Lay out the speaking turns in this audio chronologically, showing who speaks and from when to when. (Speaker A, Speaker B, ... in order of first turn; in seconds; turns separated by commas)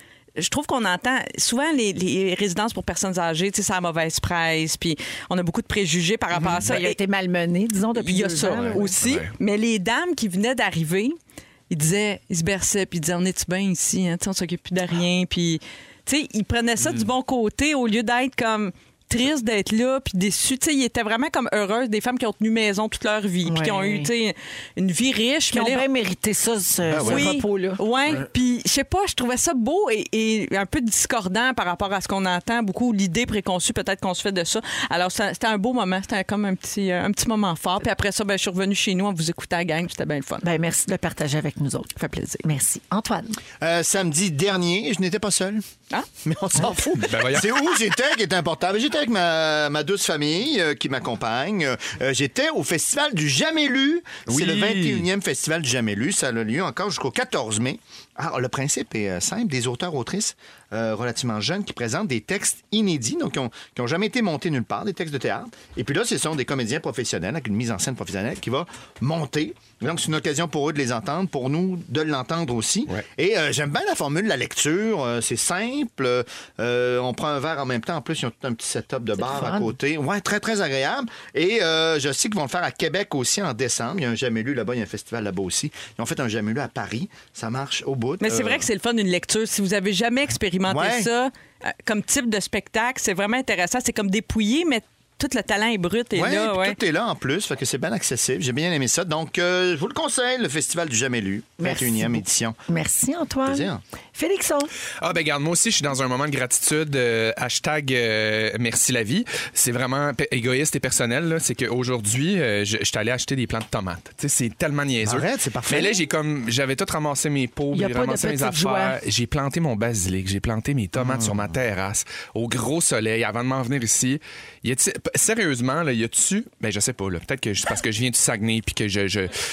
Speaker A: 0.4-7.0, Speaker B: 6.3-8.9, Speaker A: 8.0-11.1, Speaker C: 9.0-9.3, Speaker A: 11.7-25.8, Speaker B: 23.4-24.1, Speaker B: 25.5-27.8, Speaker D: 26.9-27.3, Speaker A: 27.1-40.5, Speaker B: 40.4-43.4, Speaker A: 42.0-42.4, Speaker D: 43.6-45.6, Speaker D: 46.2-88.7, Speaker C: 47.0-47.5, Speaker C: 54.3-55.0, Speaker B: 79.2-79.7, Speaker A: 88.2-96.8, Speaker D: 90.7-91.1, Speaker D: 96.1-102.6, Speaker B: 101.6-104.7, Speaker D: 103.5-103.8, Speaker C: 105.0-129.3, Speaker D: 115.0-116.0, Speaker B: 117.7-119.0, Speaker D: 121.0-121.5